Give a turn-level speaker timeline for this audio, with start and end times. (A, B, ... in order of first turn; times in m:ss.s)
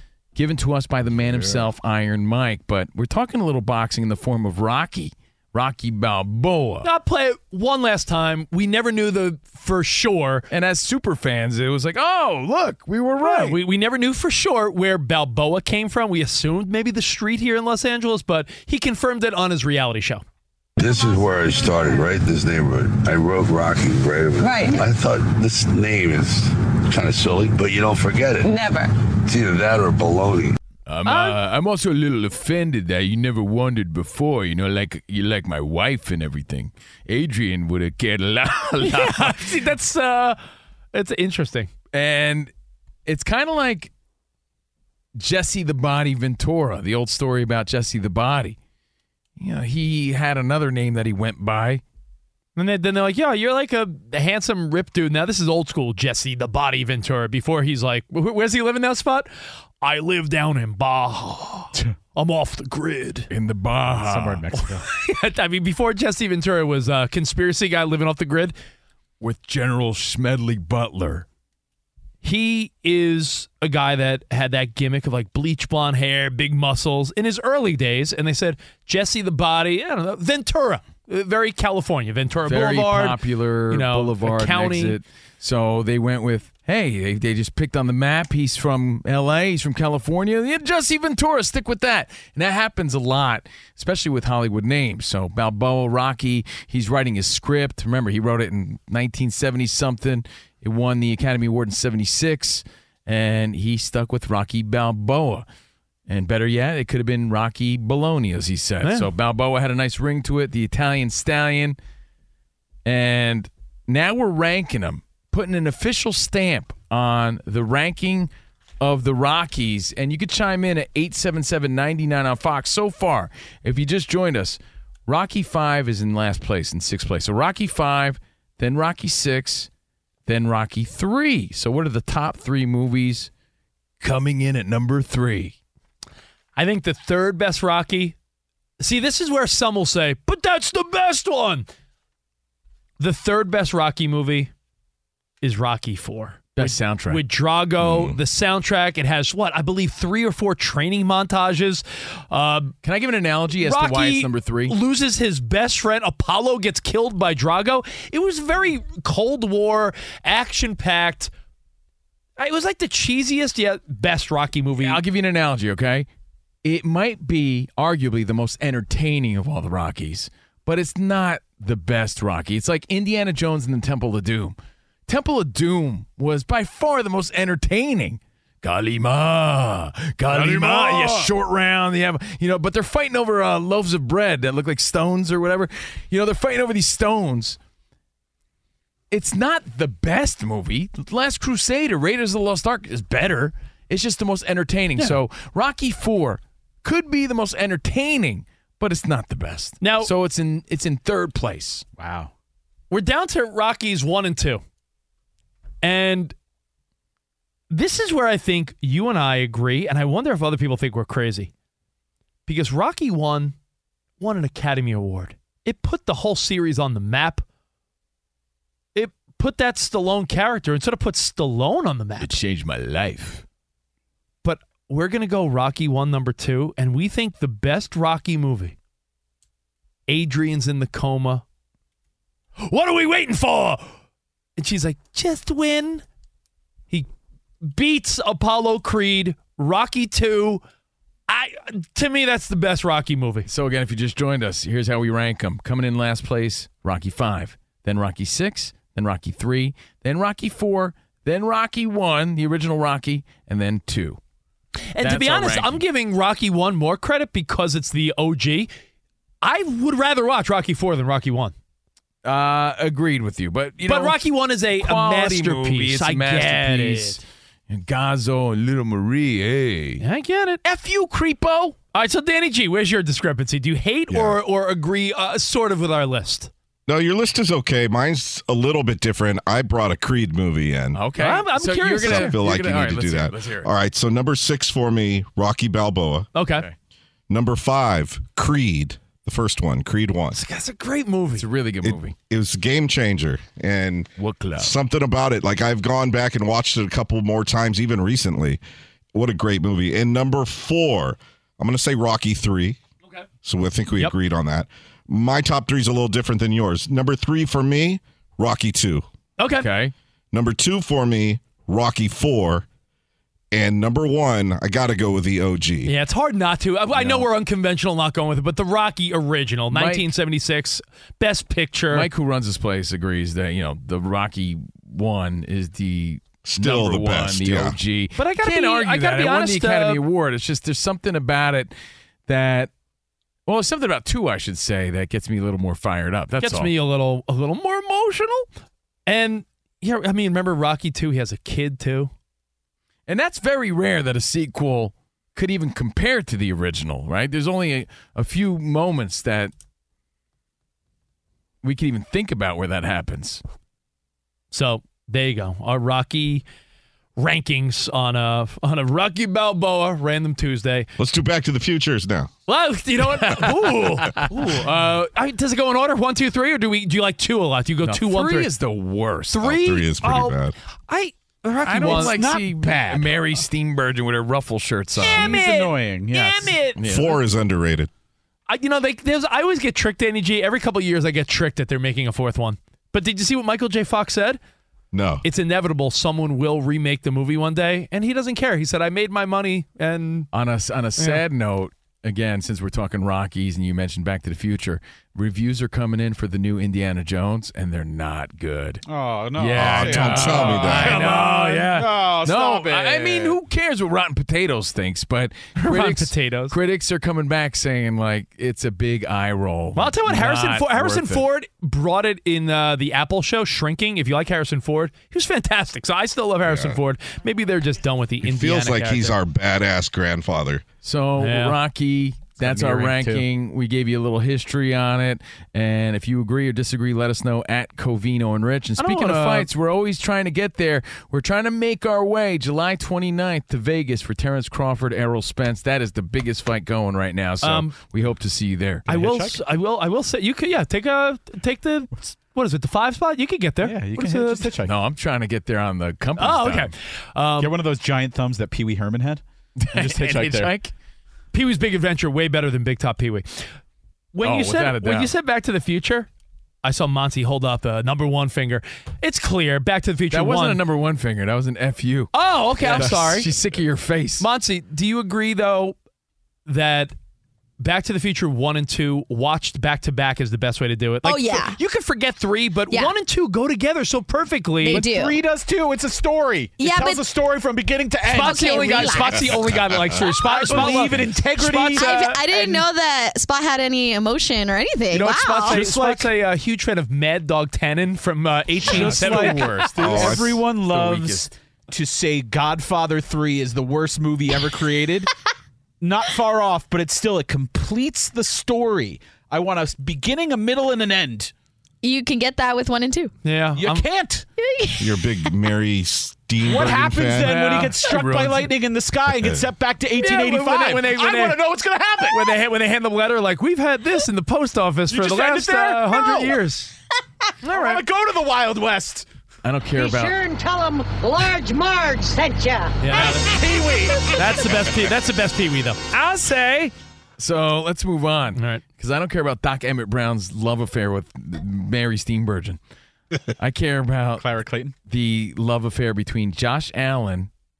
0:00.4-0:06.9 A
0:06.8-0:10.4 B
0:10.5-0:13.6 A
0:13.2-0:20.2 B
0:20.8-0:28.5 C
0:29.3-0:30.6 C
0:30.9-0:39.5 A
0:31.0-0:31.4 B
0:38.8-0:40.4 B
0:40.9-0:41.7 B
0:41.9-0:42.5 A
0:43.1-0:43.9 A
0:45.2-0:48.6 A
0:49.4-0:51.8 A
0:52.6-0:59.3 B
0:59.8-1:03.3 B
1:03.3-1:04.5 A
1:04.0-1:04.8 D
1:04.5-1:08.6 B
1:09.2-1:11.3 A
1:12.2-1:25.0 B
1:22.4-1:45.4 A
1:46.1-1:51.8 A
1:48.8-1:49.1 B
1:52.8-2:09.7 A
2:10.3-2:13.3 A
2:14.0-2:15.5 A
2:16.6-2:18.2 B
2:18.8-2:21.7 B
2:23.0-2:24.5 B
2:25.4-2:32.7 B
2:26.6-2:27.2 A
2:27.8-2:28.2 E
2:32.8-2:34.8 A
2:33.6-2:41.3 B
2:42.4-2:45.0 B
2:44.8-2:46.1 A
2:46.6-2:54.6 A
2:55.1-3:07.6 A
3:00.3-3:01.3 B
3:09.1-3:21.8 A
3:19.8-3:20.1 B
3:22.0-3:22.3 D
3:22.9-3:24.6 B
3:25.8-3:26.3 B
3:27.7-3:31.5 B
3:32.5-3:33.6 B
3:34.2-3:37.4 B
3:39.0-3:42.4 B
3:42.2-3:43.4 A
3:44.4-3:48.8 B
3:50.1-3:51.4 B
3:52.6-3:53.9 B
3:54.6-3:56.0 B
3:57.6-4:00.6 B
4:01.3-4:03.5 B
4:03.5-4:14.2 A
4:15.0-4:18.7 B
4:15.0-4:15.8 A
4:19.4-4:21.5 B
4:22.2-4:24.2 A
4:23.8-4:27.2 B
4:24.8-4:30.0 A
4:30.0-4:30.6 B
4:30.6-4:31.8 A
4:31.9-4:36.5 B
4:34.1-4:34.4 E
4:36.9-4:41.0 E
4:40.9-4:43.7 A
4:41.2-4:42.4 B
4:42.0-4:46.3 E
4:46.4-4:46.7 B
4:46.5-4:46.7 A
4:47.3-4:50.4 E
4:50.3-4:51.5 B
4:51.4-4:52.2 A
4:51.8-4:58.6 E
4:54.2-4:54.7 A
4:59.1-5:02.8 E
5:03.4-5:09.1 E
5:09.4-5:09.7 B
5:09.5-5:09.9 A
5:10.3-5:12.7 E
5:13.5-5:15.9 E
5:15.8-5:22.1 B
5:17.0-5:17.2 A
5:19.7-5:20.1 A
5:21.9-5:31.7 A
5:26.4-5:27.8 E
5:28.2-5:30.0 B
5:32.3-5:32.7 A
5:33.5-5:36.7 A
5:36.4-5:38.5 B
5:39.1-5:42.1 B
5:43.1-5:49.5 A
5:51.6-5:53.4 A
5:54.5-5:56.4 B
5:57.2-6:00.9 B
6:01.0-6:02.3 E
6:02.5-6:08.5 B
6:03.2-6:03.5 A
6:04.0-6:05.0 A
6:07.8-6:09.4 A
6:09.3-6:12.4 B
6:09.4-6:10.6 E
6:11.6-6:15.4 A
6:11.8-6:13.1 D
6:15.0-6:16.8 B
6:15.0-6:16.6 D
6:16.8-6:17.2 A
6:16.8-6:17.9 E
6:18.5-6:24.4 B
6:24.9-6:25.2 E
6:25.2-6:30.3 B
6:30.3-6:38.8 A
6:31.0-6:31.2 B
6:38.9-6:43.4 D
6:39.4-6:51.3 A
6:39.5-6:41.1 E
6:40.6-6:41.8 B
6:45.6-6:46.6 B
6:49.8-6:59.2 B
6:56.4-6:56.8 E
6:58.2-7:00.7 E
7:00.8-7:18.9 A
7:01.2-7:01.6 B
7:02.4-7:03.2 D
7:08.8-7:09.5 B
7:17.4-7:17.8 B
7:18.9-7:24.5 B
7:18.9-7:19.4 D
7:23.6-7:24.7 D
7:24.6-7:26.7 A
7:26.2-7:27.5 B
7:27.4-7:30.5 D
7:29.6-7:30.7 A
7:31.3-7:33.5 B
7:34.1-7:36.1 B
7:34.2-7:35.1 A
7:36.6-7:40.6 B
7:40.1-7:44.3 A
7:42.1-7:43.3 B
7:44.2-7:45.8 B
7:46.5-7:46.9 B
7:47.6-7:54.8 B
7:51.0-7:51.6 F
7:54.6-7:55.2 F
7:54.7-7:59.4 D
7:56.6-7:57.0 F
7:58.1-8:02.6 B
7:58.1-7:59.3 F
8:00.0-8:02.1 D
8:00.4-8:00.8 F
8:01.8-8:05.6 F
8:04.9-8:09.8 B
8:05.4-8:06.1 D
8:08.6-8:11.3 A
8:08.6-8:15.1 D
8:09.8-8:10.4 E
8:15.8-8:21.3 D
8:21.8-8:23.1 F
8:23.2-8:23.8 B
8:23.6-8:24.3 D
8:24.4-8:25.3 F
8:24.8-8:27.4 E
8:26.4-8:32.3 D
8:27.3-8:28.4 B
8:27.5-8:27.7 A
8:29.1-8:29.4 E
8:30.0-8:31.4 B
8:32.1-8:36.7 B
8:34.9-8:36.4 D
8:37.4-8:37.8 B
8:37.4-8:39.1 D
8:39.4-8:40.2 A
8:39.7-8:42.9 G
8:42.8-8:43.4 B
8:43.0-8:44.2 D
8:44.0-8:46.7 B
8:47.2-8:52.6 A
8:48.4-8:48.6 B
8:53.4-8:54.2 A
8:54.2-8:54.7 D
8:54.9-8:57.3 A